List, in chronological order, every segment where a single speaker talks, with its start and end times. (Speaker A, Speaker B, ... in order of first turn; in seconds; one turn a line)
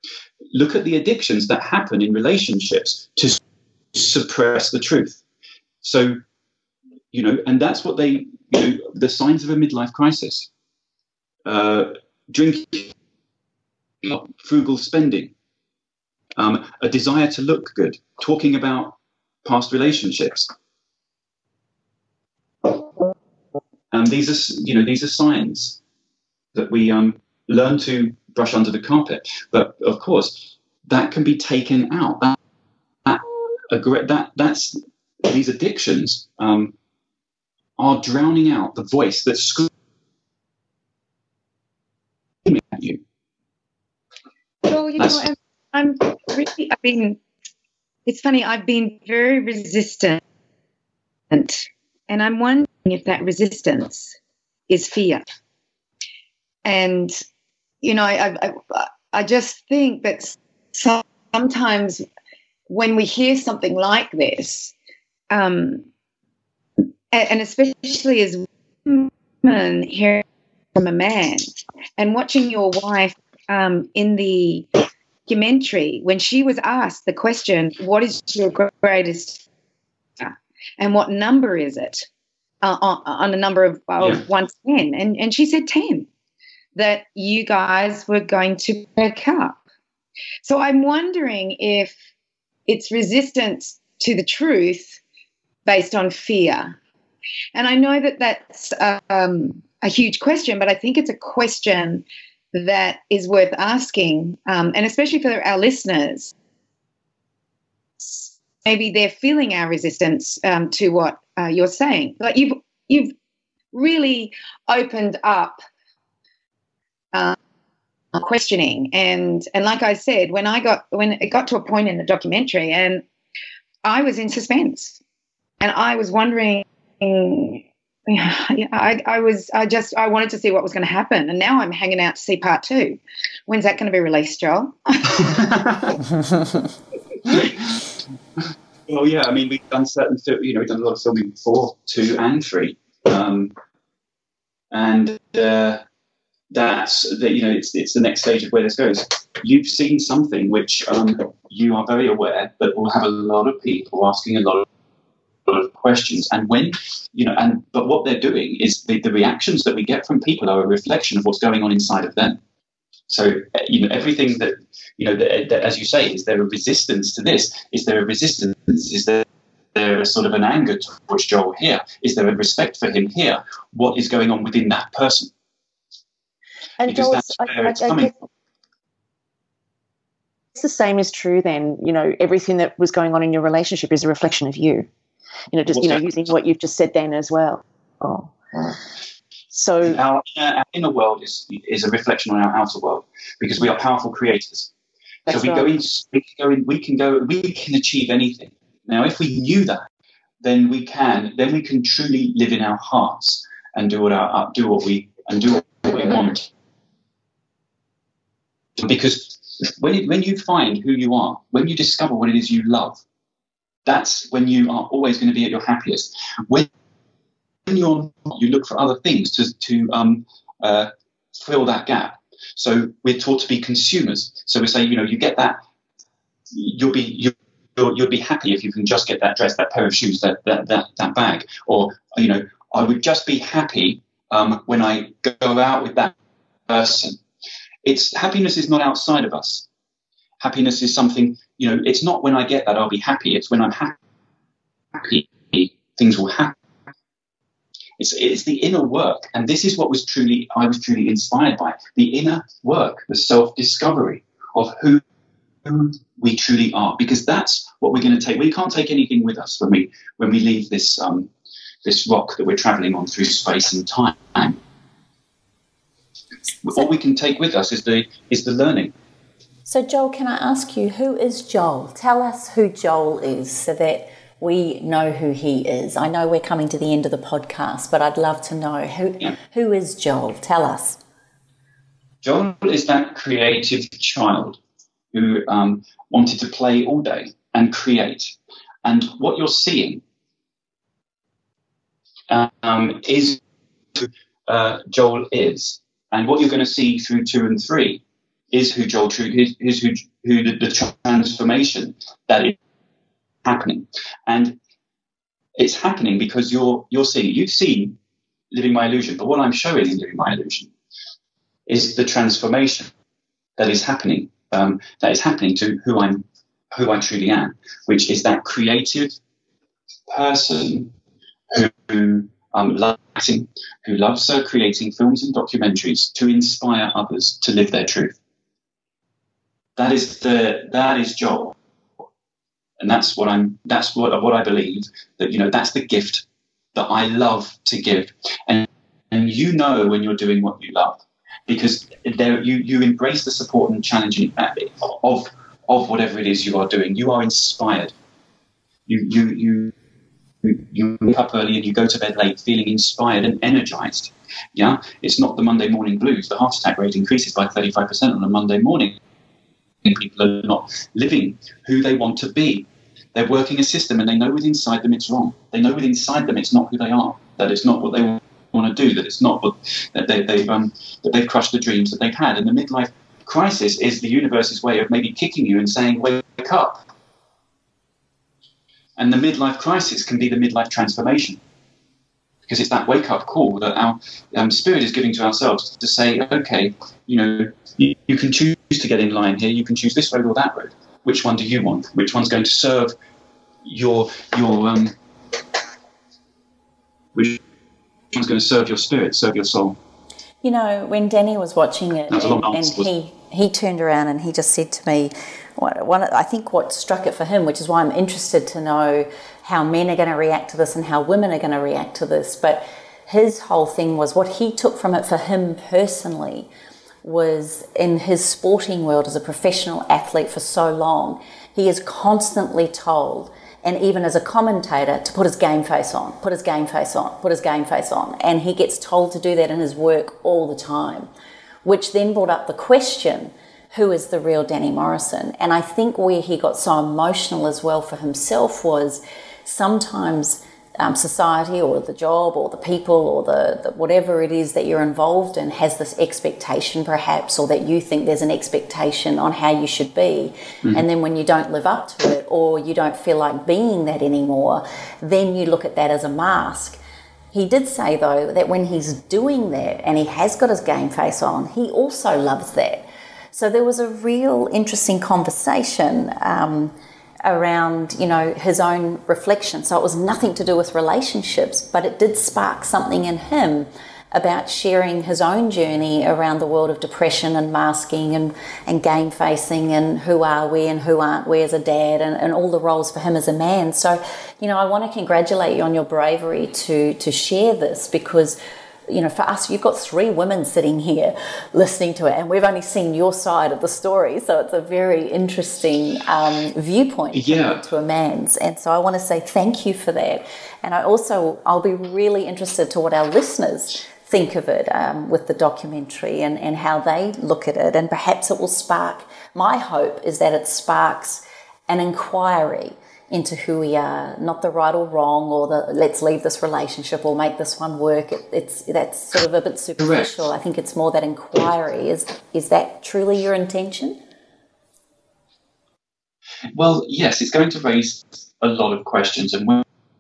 Speaker A: 0.5-3.4
Speaker A: 3.9-5.2
Speaker A: 5.8-6.2
Speaker A: 7.1-10.5
Speaker A: 11.4-12.9
Speaker A: 14.0-15.3
Speaker A: 16.4-20.5
Speaker A: 23.9-25.8
Speaker A: 26.5-32.4
Speaker A: 33.0-36.7
Speaker A: 37.8-39.7
Speaker A: 42.5-43.0
Speaker B: 44.6-47.2
Speaker A: 45.0-45.3
Speaker B: 48.1-50.2
Speaker B: 51.3-54.1
Speaker B: 54.7-55.2
Speaker B: 56.6-57.2
Speaker B: 57.8-62.0
Speaker B: 62.7-64.7
Speaker B: 65.3-65.8
Speaker B: 67.1-70.2
Speaker B: 70.8-74.7
Speaker B: 75.3-79.4
Speaker B: 80.2-82.1
Speaker B: 82.6-86.1
Speaker B: 86.8-89.6
Speaker B: 90.4-92.0
Speaker B: 92.7-95.0
Speaker B: 95.7-96.8
Speaker B: 97.5-106.3
Speaker B: 108.0-113.1
Speaker B: 113.7-115.6
Speaker B: 118.2-123.0
Speaker B: 123.8-125.0
Speaker B: 125.6-135.4
Speaker A: 135.2-136.0
Speaker A: 137.2-137.8
Speaker A: 138.4-143.5
Speaker A: 144.7-145.8
Speaker A: 146.5-154.7
Speaker A: 155.5-162.4
Speaker A: 163.1-175.3
Speaker C: 176.8-178.1
Speaker A: 176.9-178.1
Speaker C: 180.6-184.9
Speaker C: 185.5-188.8
Speaker A: 185.7-186.1
Speaker C: 189.5-190.0
Speaker A: 189.8-194.7
Speaker A: 195.3-199.9
Speaker C: 195.3-195.7
Speaker A: 200.4-206.5
Speaker A: 208.8-213.0
Speaker A: 213.9-216.7
Speaker A: 217.7-225.6
Speaker A: 226.5-236.1
Speaker A: 236.7-237.2
Speaker A: 237.8-239.7
Speaker A: 240.4-244.0
Speaker A: 244.9-246.6
Speaker A: 248.0-255.0
Speaker A: 255.7-261.3
Speaker A: 261.8-264.6
Speaker A: 266.6-268.9
Speaker D: 269.7-281.0
Speaker A: 282.2-284.6
Speaker A: 285.1-290.0
Speaker A: 292.3-293.4
Speaker A: 293.9-302.6
Speaker A: 303.4-304.6
Speaker A: 305.6-308.0
Speaker A: 308.5-310.7
Speaker A: 311.7-312.9
Speaker A: 313.6-319.2
Speaker A: 320.1-320.9
Speaker A: 321.5-328.2
Speaker A: 329.8-331.6
Speaker A: 332.8-347.9
Speaker A: 348.9-349.7
Speaker A: 350.4-359.0
Speaker A: 359.8-376.9
Speaker A: 379.0-381.4
Speaker A: 382.5-392.9
Speaker A: 393.6-394.9
Speaker A: 398.1-399.8
Speaker D: 400.4-416.5
Speaker A: 402.1-402.9
Speaker D: 417.0-431.1
Speaker D: 431.6-456.8
Speaker D: 457.3-466.7
Speaker D: 467.2-524.0
Speaker A: 497.1-497.6
Speaker A: 519.8-520.1
Speaker A: 526.5-529.6